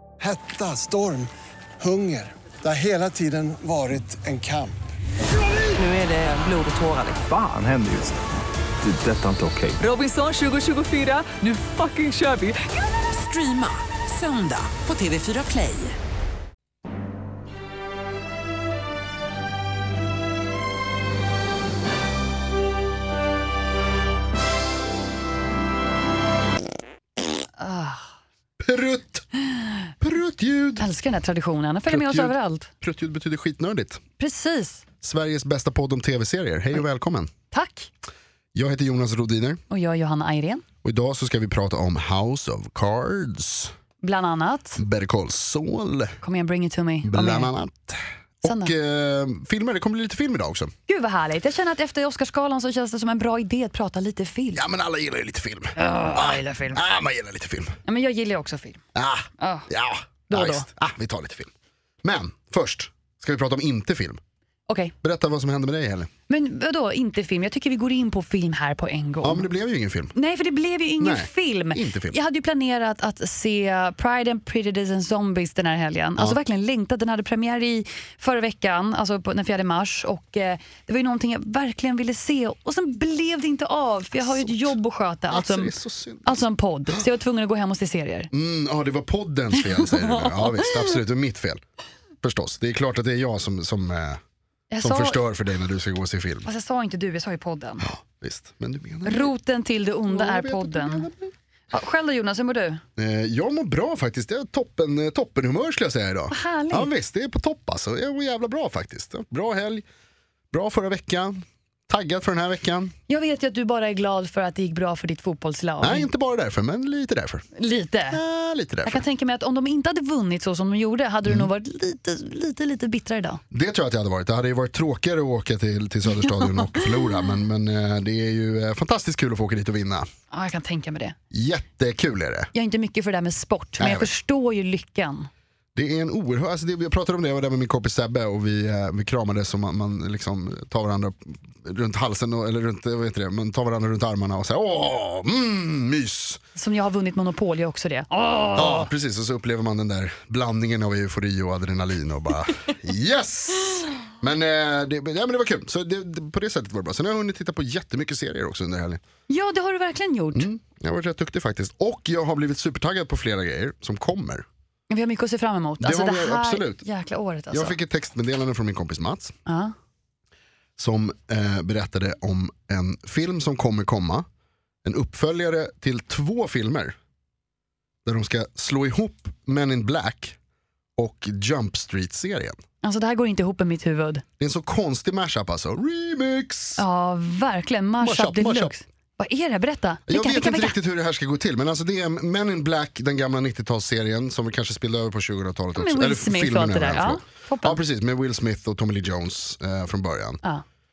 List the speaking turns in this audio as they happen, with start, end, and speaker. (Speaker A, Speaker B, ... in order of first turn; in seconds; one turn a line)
Speaker A: 0.2-4.8
Speaker B: 5.8-7.2
Speaker C: 7.2-8.2
Speaker C: 8.8-9.8
Speaker B: 9.8-16.0
Speaker D: 27.6-28.1
Speaker E: 28.6-29.3
Speaker E: 30.0-30.9
Speaker D: 30.8-32.7
Speaker E: 31.9-34.0
Speaker D: 34.2-34.8
Speaker E: 35.0-37.3
Speaker D: 37.5-37.9
Speaker E: 38.5-39.6
Speaker D: 39.7-40.6
Speaker E: 40.8-43.7
Speaker D: 44.0-44.8
Speaker E: 44.8-46.2
Speaker D: 46.2-47.5
Speaker E: 47.0-50.7
Speaker D: 48.5-48.7
Speaker D: 50.9-54.6
Speaker E: 54.5-57.8
Speaker D: 55.8-56.8
Speaker D: 57.9-58.8
Speaker E: 59.0-61.5
Speaker D: 59.4-59.7
Speaker D: 60.3-60.7
Speaker E: 62.0-64.2
Speaker D: 64.7-64.9
Speaker E: 65.0-66.1
Speaker D: 66.3-69.5
Speaker E: 69.2-70.1
Speaker D: 70.2-85.7
Speaker E: 71.0-72.2
Speaker E: 84.2-84.7
Speaker E: 85.3-86.4
Speaker D: 86.2-88.3
Speaker E: 88.3-91.6
Speaker D: 89.9-90.8
Speaker E: 92.2-94.2
Speaker D: 94.7-95.2
Speaker E: 94.8-96.5
Speaker D: 96.5-97.9
Speaker E: 97.8-99.3
Speaker D: 99.0-101.1
Speaker E: 100.1-101.3
Speaker D: 101.7-102.8
Speaker E: 103.0-109.8
Speaker D: 106.3-106.9
Speaker E: 110.5-112.9
Speaker D: 113.1-116.1
Speaker E: 115.8-117.5
Speaker D: 117.5-118.2
Speaker E: 118.1-119.0
Speaker D: 118.8-123.4
Speaker E: 123.5-130.1
Speaker D: 130.3-131.2
Speaker E: 131.3-132.5
Speaker D: 132.5-135.3
Speaker E: 133.8-134.1
Speaker E: 135.8-146.4
Speaker D: 146.6-148.9
Speaker E: 148.6-159.0
Speaker D: 159.3-160.5
Speaker E: 160.3-164.4
Speaker D: 164.9-167.8
Speaker E: 165.8-166.8
Speaker E: 167.5-169.4
Speaker D: 169.5-169.7
Speaker E: 170.8-174.3
Speaker E: 174.8-177.0
Speaker E: 178.1-180.4
Speaker E: 181.0-182.6
Speaker D: 182.8-184.2
Speaker E: 184.4-186.8
Speaker D: 186.8-190.8
Speaker E: 188.0-188.7
Speaker E: 190.1-200.4
Speaker D: 195.7-197.8